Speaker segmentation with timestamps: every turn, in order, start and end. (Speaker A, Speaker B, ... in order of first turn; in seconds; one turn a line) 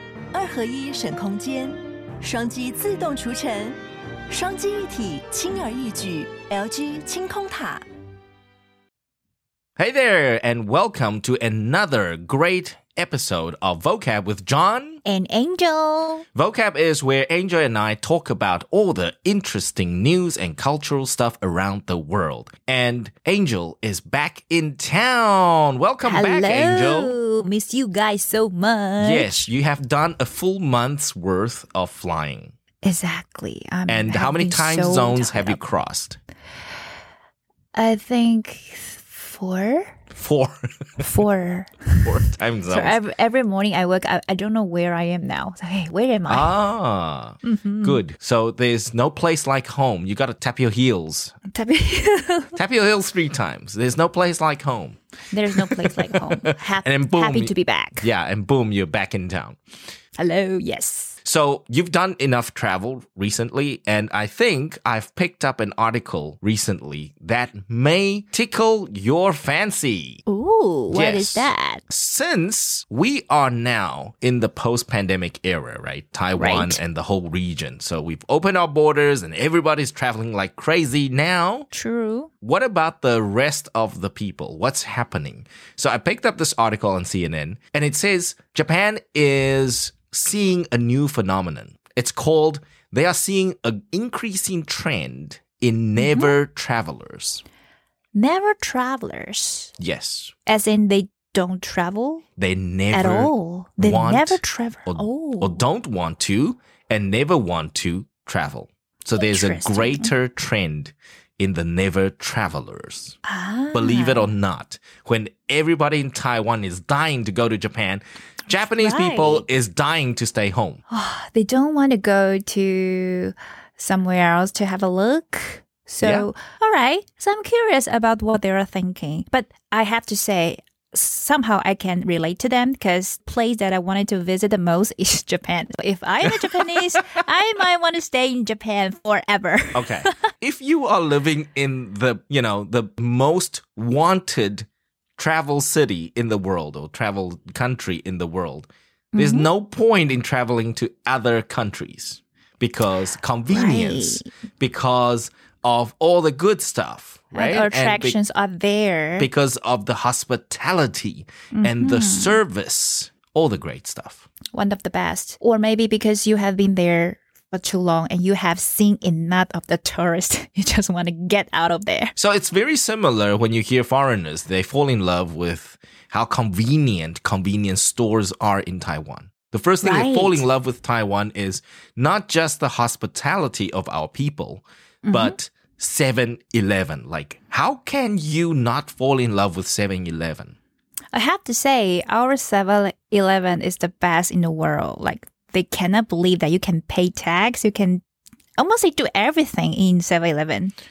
Speaker A: 0.3-7.8
Speaker B: 9.8-15.0
Speaker C: 15.1-16.2
Speaker B: 16.4-27.2
Speaker C: 26.0-29.5
Speaker B: 29.0-32.5
Speaker C: 32.8-35.6
Speaker B: 33.9-36.2
Speaker C: 37.7-40.0
Speaker B: 40.1-41.0
Speaker C: 41.0-46.5
Speaker B: 42.0-43.0
Speaker B: 46.3-51.4
Speaker C: 47.4-48.0
Speaker C: 51.5-52.6
Speaker B: 52.6-59.6
Speaker C: 55.3-58.1
Speaker C: 60.2-61.2
Speaker B: 61.2-70.2
Speaker C: 70.3-71.8
Speaker B: 70.9-81.7
Speaker C: 76.4-76.8
Speaker C: 81.7-82.3
Speaker B: 82.4-97.4
Speaker C: 96.0-96.3
Speaker C: 98.2-99.7
Speaker B: 99.8-100.3
Speaker C: 100.5-102.2
Speaker B: 102.4-113.2
Speaker C: 102.9-105.6
Speaker C: 109.2-110.1
Speaker C: 113.2-114.3
Speaker B: 113.7-120.8
Speaker C: 118.7-119.5
Speaker C: 120.9-140.3
Speaker B: 126.0-126.3
Speaker B: 136.2-136.8
Speaker B: 139.8-158.2
Speaker C: 149.1-149.5
Speaker C: 153.5-154.3
Speaker C: 157.3-159.3
Speaker B: 159.2-164.3
Speaker C: 161.5-162.4
Speaker C: 164.5-172.1
Speaker B: 172.2-190.6
Speaker C: 179.8-180.5
Speaker C: 185.0-185.4
Speaker C: 191.1-198.0
Speaker C: 198.6-200.7